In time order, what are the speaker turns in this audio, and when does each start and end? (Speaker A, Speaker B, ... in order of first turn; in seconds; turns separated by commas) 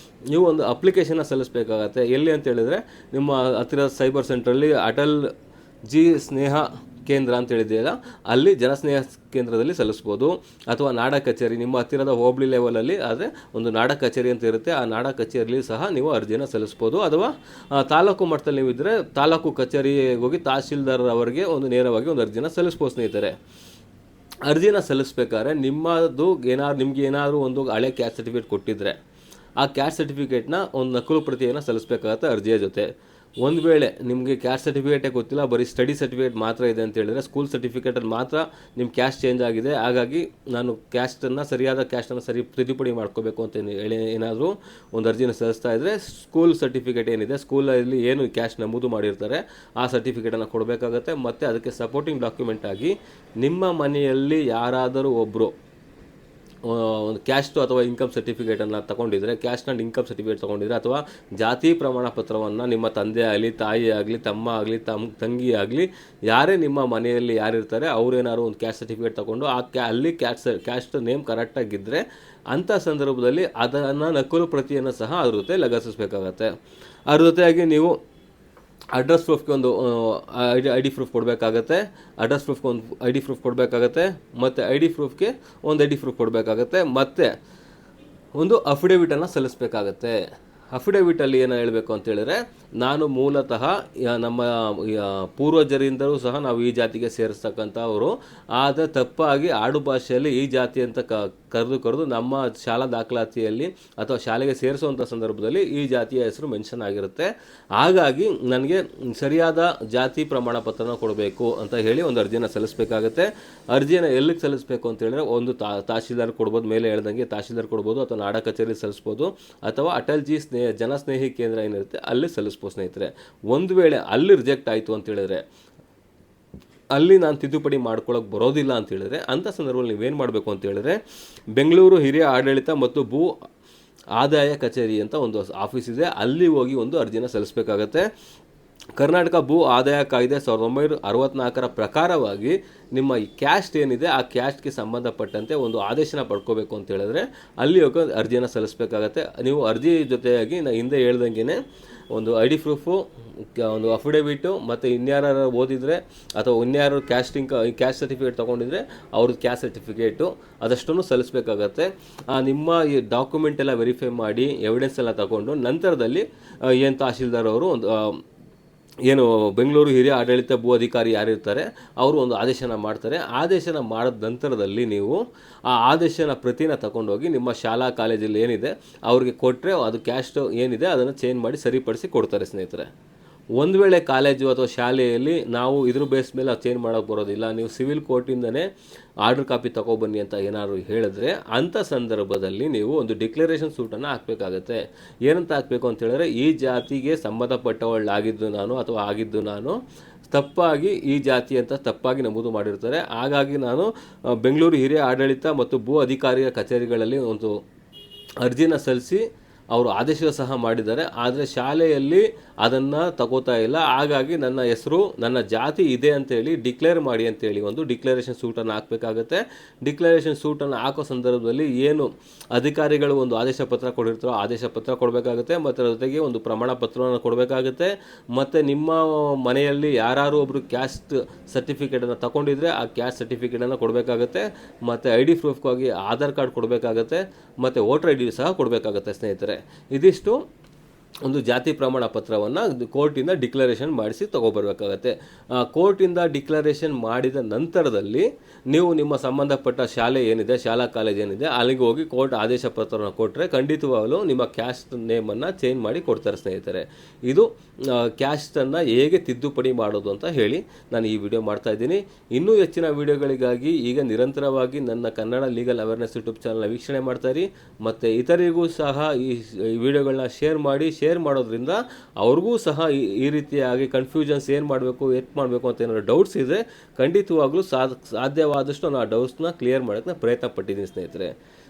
Speaker A: 0.3-5.3, Speaker A: 5.9-23.4, Speaker A: 24.4-29.0, Speaker A: 29.6-32.9, Speaker A: 33.4-55.5, Speaker A: 56.6-76.5, Speaker A: 77.1-78.0, Speaker A: 79.0-87.3, Speaker A: 88.4-90.2, Speaker A: 90.7-125.4, Speaker A: 127.0-131.0, Speaker A: 131.5-133.3, Speaker A: 134.2-138.1, Speaker A: 139.0-168.2, Speaker A: 169.1-182.9, Speaker A: 183.6-188.7, Speaker A: 189.2-199.8, Speaker A: 200.3-207.6, Speaker A: 208.4-240.4, Speaker A: 241.2-281.3